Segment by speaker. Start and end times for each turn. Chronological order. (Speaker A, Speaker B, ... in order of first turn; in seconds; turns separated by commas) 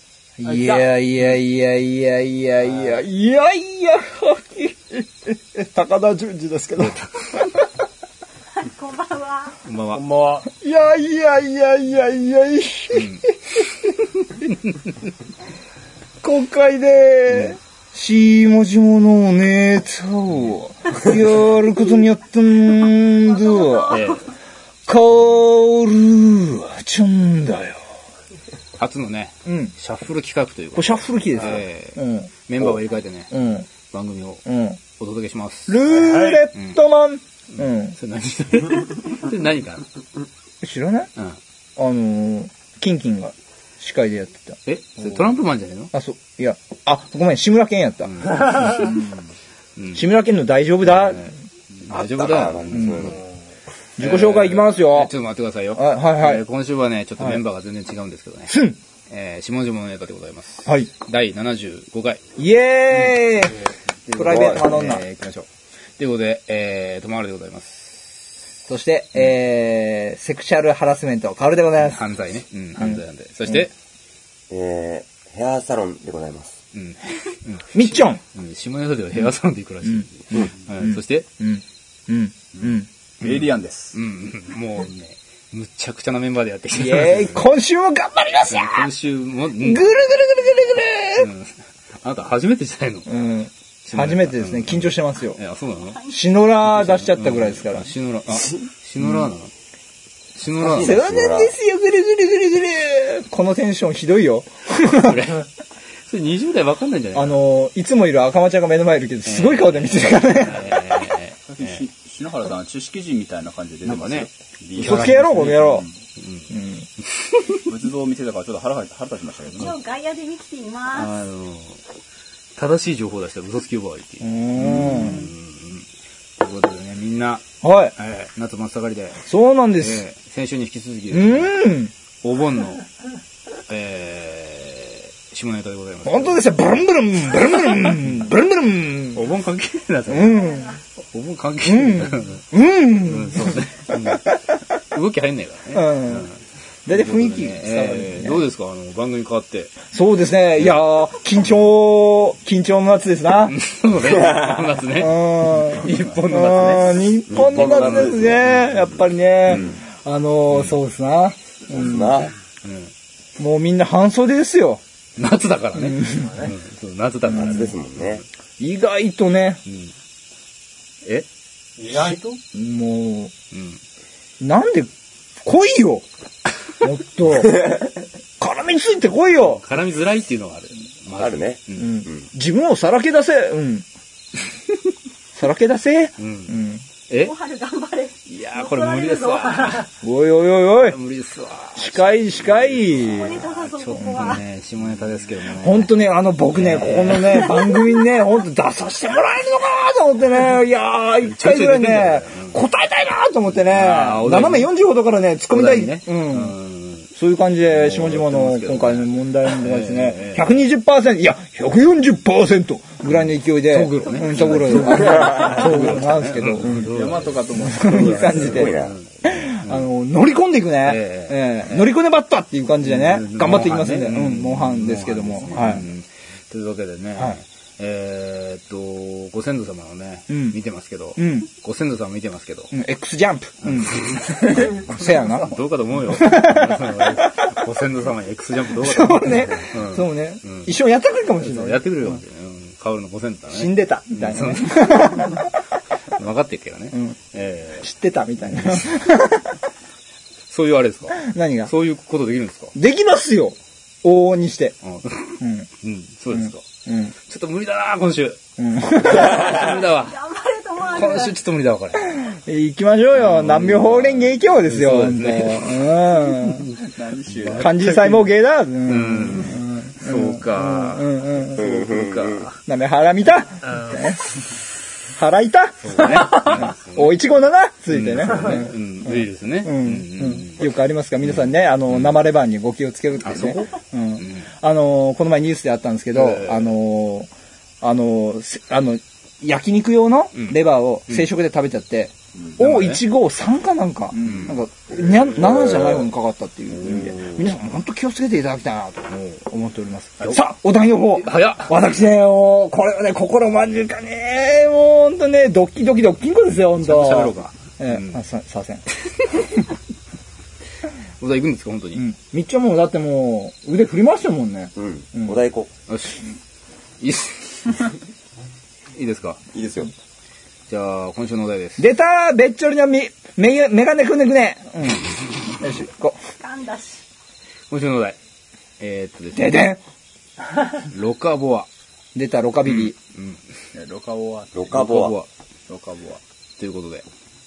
Speaker A: 0.4-7.7, Speaker B: 8.6-9.6, Speaker C: 9.7-10.1, Speaker A: 9.9-13.7, Speaker C: 12.9-13.2, Speaker A: 16.2-24.1, Speaker C: 17.3-17.6, Speaker C: 23.9-24.3, Speaker A: 24.9-27.8, Speaker C: 28.8-34.5, Speaker A: 29.5-29.7, Speaker A: 30.7-32.3, Speaker A: 33.3-33.7, Speaker A: 34.5-34.8, Speaker C: 35.0-36.8, Speaker A: 35.7-38.0, Speaker C: 37.6-39.9, Speaker A: 40.6-41.1, Speaker A: 41.8-44.6, Speaker C: 44.7-45.9, Speaker A: 45.9-48.8, Speaker C: 48.1-48.9, Speaker C: 49.8-50.1, Speaker A: 49.9-51.4, Speaker C: 50.9-51.4, Speaker C: 51.9-53.2, Speaker D: 51.9-53.2, Speaker A: 52.7-53.1, Speaker A: 54.0-55.1, Speaker C: 54.0-58.5, Speaker A: 55.8-56.5, Speaker A: 58.5-58.8, Speaker C: 59.1-62.2, Speaker A: 62.4-65.0, Speaker C: 64.1-65.5, Speaker D: 64.3-64.7, Speaker C: 66.0-68.2, Speaker A: 68.7-72.1, Speaker C: 71.8-73.7, Speaker D: 74.5-76.6, Speaker C: 76.7-81.3, Speaker A: 77.7-78.2, Speaker A: 79.8-82.9, Speaker E: 83.2-84.0, Speaker C: 83.2-87.5, Speaker A: 86.7-88.9, Speaker C: 88.5-89.9, Speaker A: 89.6-91.3, Speaker C: 91.2-93.1, Speaker A: 93.1-95.4, Speaker C: 93.8-99.5, Speaker A: 96.1-97.9, Speaker C: 100.3-101.0, Speaker D: 100.6-101.5, Speaker A: 100.6-105.3, Speaker C: 105.0-105.5, Speaker C: 106.0-107.4, Speaker A: 107.1-110.9, Speaker C: 109.2-111.8, Speaker E: 111.5-115.9, Speaker C: 113.8-116.6, Speaker A: 114.8-115.9, Speaker A: 116.5-116.9, Speaker C: 117.2-117.5, Speaker E: 117.7-119.8, Speaker B: 119.6-121.2, Speaker C: 120.9-121.8, Speaker C: 122.6-125.9, Speaker A: 124.2-125.3, Speaker C: 126.4-127.4, Speaker A: 127.6-128.0, Speaker C: 128.0-129.2, Speaker A: 129.2-130.1, Speaker C: 129.8-132.8, Speaker A: 131.1-131.9, Speaker C: 133.7-136.5, Speaker A: 136.1-139.3, Speaker C: 137.7-138.1, Speaker C: 139.2-144.4, Speaker A: 140.1-140.7, Speaker A: 141.7-144.4, Speaker C: 144.9-149.7, Speaker A: 145.7-146.3, Speaker A: 146.9-148.5, Speaker A: 149.9-153.6, Speaker C: 153.5-158.8, Speaker A: 154.2-162.2, Speaker E: 155.9-156.1, Speaker D: 157.3-158.5, Speaker D: 159.5-159.8, Speaker C: 160.5-160.8, Speaker D: 161.7-162.3, Speaker C: 162.6-162.9, Speaker A: 163.4-164.8, Speaker C: 165.2-168.2, Speaker A: 165.8-166.5, Speaker A: 167.3-167.6, Speaker D: 167.3-168.2, Speaker A: 168.6-169.6, Speaker C: 169.7-169.9, Speaker E: 171.8-172.3, Speaker A: 171.9-173.3, Speaker C: 173.5-173.8, Speaker A: 174.4-174.9, Speaker A: 175.4-176.1, Speaker A: 176.8-177.8, Speaker A: 178.4-179.6, Speaker C: 179.4-182.1, Speaker D: 181.2-182.3, Speaker A: 181.8-183.9, Speaker A: 185.3-186.8, Speaker C: 186.2-187.3, Speaker B: 187.2-189.8, Speaker C: 188.3-189.9, Speaker A: 190.0-191.0, Speaker C: 190.8-195.9, Speaker A: 191.8-193.4, Speaker B: 193.1-194.4, Speaker A: 195.5-206.6, Speaker C: 196.5-197.6, Speaker C: 201.2-202.6, Speaker C: 203.7-204.8, Speaker C: 205.5-207.1, Speaker A: 207.2-217.0, Speaker C: 207.7-210.5, Speaker C: 213.1-219.9, Speaker D: 214.9-215.5, Speaker E: 216.8-218.7, Speaker A: 217.6-225.9, Speaker D: 217.8-219.0, Speaker C: 220.8-221.9, Speaker C: 222.8-232.7, Speaker A: 230.3-230.6, Speaker A: 231.2-231.5, Speaker A: 232.7-235.6, Speaker C: 233.6-240.8, Speaker A: 236.1-237.5, Speaker A: 238.8-242.2, Speaker C: 241.4-245.4, Speaker A: 243.5-245.5, Speaker C: 246.1-247.9, Speaker A: 247.8-249.6, Speaker C: 250.5-252.8, Speaker A: 251.2-251.7, Speaker A: 252.8-254.8, Speaker C: 254.8-256.6, Speaker A: 255.4-255.7, Speaker A: 256.3-257.1, Speaker C: 257.2-258.4, Speaker A: 258.6-259.4, Speaker C: 259.0-260.2, Speaker B: 259.4-261.4, Speaker C: 260.8-262.2, Speaker A: 262.1-266.7, Speaker C: 263.1-266.6, Speaker E: 266.8-267.8, Speaker C: 267.3-268.3, Speaker A: 267.6-271.8, Speaker C: 268.9-272.5, Speaker D: 271.6-272.5, Speaker A: 272.6-274.3, Speaker A: 275.1-287.3, Speaker C: 275.8-277.1, Speaker C: 277.9-280.7, Speaker C: 281.2-282.2, Speaker C: 283.2-284.5, Speaker C: 286.1-286.7, Speaker A: 287.8-308.8, Speaker C: 290.4-291.3, Speaker C: 292.6-293.0, Speaker E: 294.1-294.6, Speaker C: 294.2-294.6, Speaker C: 295.2-296.0, Speaker C: 296.7-297.5, Speaker C: 299.1-299.4, Speaker C: 300.2-300.4, Speaker C: 301.1-301.8, Speaker C: 306.8-308.2, Speaker C: 311.2-312.1, Speaker A: 311.9-315.4, Speaker D: 314.8-315.7, Speaker C: 315.9-316.2, Speaker C: 317.0-317.9, Speaker C: 318.9-319.4, Speaker D: 319.5-319.9, Speaker C: 320.7-321.9, Speaker A: 321.8-326.2, Speaker B: 326.4-327.0, Speaker C: 327.7-328.2, Speaker C: 328.8-329.6, Speaker A: 329.4-329.8, Speaker C: 330.8-331.7, Speaker A: 332.1-332.9, Speaker C: 332.7-333.4, Speaker E: 333.7-334.6, Speaker D: 334.5-335.2, Speaker C: 334.7-335.3, Speaker E: 335.7-336.2, Speaker C: 336.6-337.1